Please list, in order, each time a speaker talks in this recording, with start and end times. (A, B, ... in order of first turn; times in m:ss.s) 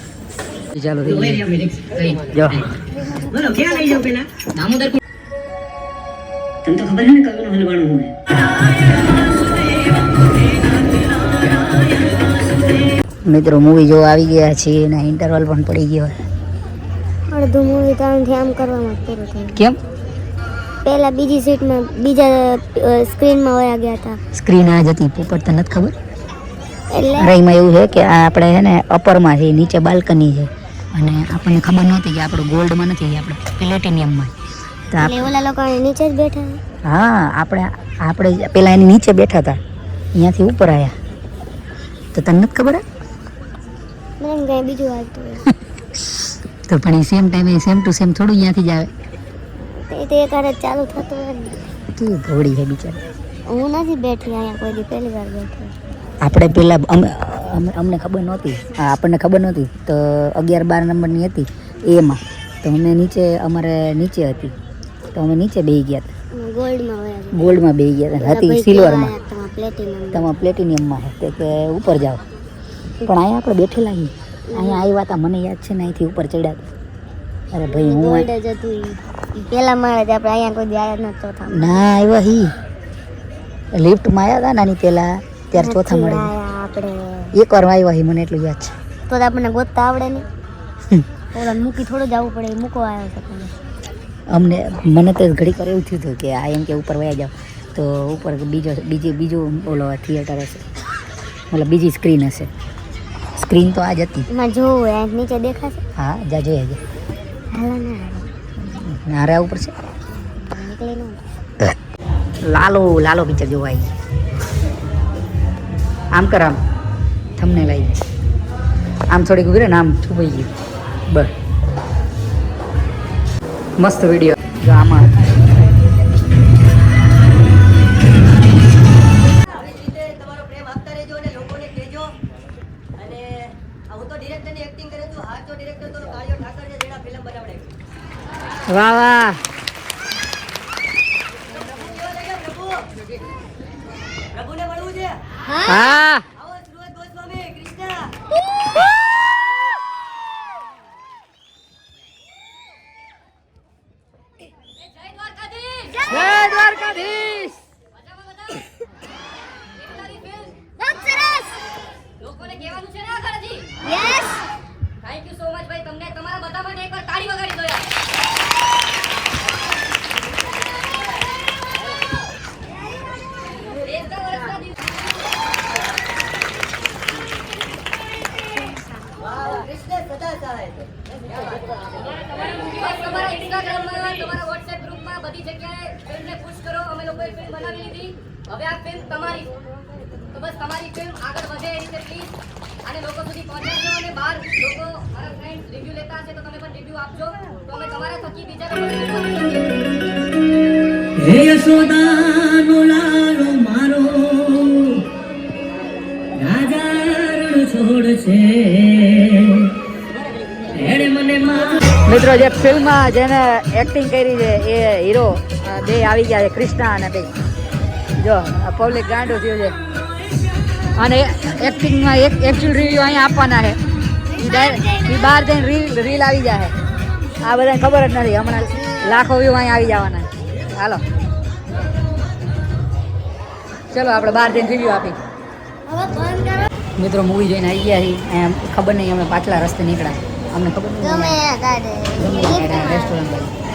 0:00.7-0:02.7 A
0:01.5-0:01.9 B
0:03.4-0:04.3 B
0:04.5-0:05.0 A
0:06.6-0:08.1 A
0:13.2-0:16.1 A
0:17.3-0:19.6 C
0:20.8-0:24.2 C
0:24.3-0:25.9 A
0:26.9-0:27.3 C
0:27.2-0:34.3 A
0:34.9-0:35.2 A
0:35.0-0:36.6 C
0:36.8-0:39.6 A
0:40.1-0:41.0 A
0:42.1-0:42.8 A
0:44.2-0:45.4 C
0:46.7-0:48.9 A
0:49.9-0:51.6 C
0:51.9-0:53.0 A
0:53.5-0:55.7 C
0:56.2-1:04.5 A
1:05.1-1:06.1 A
1:06.3-1:07.6 C
1:07.3-1:09.1 A
1:08.2-1:10.3 C
1:10.1-1:12.2 A
1:13.0-1:16.7 A
1:14.5-1:14.9 C
1:17.5-1:18.3 A
1:17.7-1:21.9 C
1:21.5-1:22.5 A
1:23.7-1:26.3 A
1:25.5-1:27.4 C
1:27.3-1:28.7 A
1:29.1-1:30.3 C
1:31.3-1:33.5 C
1:34.3-1:40.6 A
1:41.5-1:42.5 A
1:43.4-1:44.3 A
1:44.3-1:45.8 C
1:46.0-1:46.8 A
1:47.5-1:48.3 C
1:48.6-1:49.8 A
1:50.1-1:51.2 C
1:52.4-1:53.9 A
1:56.1-1:56.6 A
1:57.4-1:58.0 A
1:59.1-2:00.5 A
2:03.8-2:05.1 A
2:09.7-2:12.1 B
2:13.0-2:17.6 B
2:18.7-2:19.4 A
2:24.4-2:25.1 B
2:25.4-2:25.9 C
2:25.6-2:26.2 A
2:26.9-2:27.7 B
2:35.1-2:35.9 D
2:35.9-2:36.8 C
2:36.0-2:37.6 A
2:39.8-2:40.5 D
2:40.8-2:41.7 C
2:42.2-2:43.7 D
2:43.8-2:44.4 C
2:45.0-2:47.9 D
2:53.8-2:54.8 D
2:59.8-3:00.8 B
3:02.5-3:09.6 D
3:10.3-3:19.8 D
3:21.2-3:25.0 A
3:22.8-3:23.6 B
3:26.4-3:29.6 A
3:26.6-3:28.5 B
3:30.8-3:37.3 A
3:30.8-3:31.6 B
3:38.2-3:39.8 A
3:41.0-3:43.8 A
3:44.3-3:45.5 C
3:44.4-3:46.7 A
3:47.4-3:51.0 A
3:48.8-3:49.2 C
3:53.9-3:55.2 A
3:55.8-3:56.7 C
3:57.0-4:01.4 A
4:01.0-4:03.2 C
4:02.2-4:03.5 A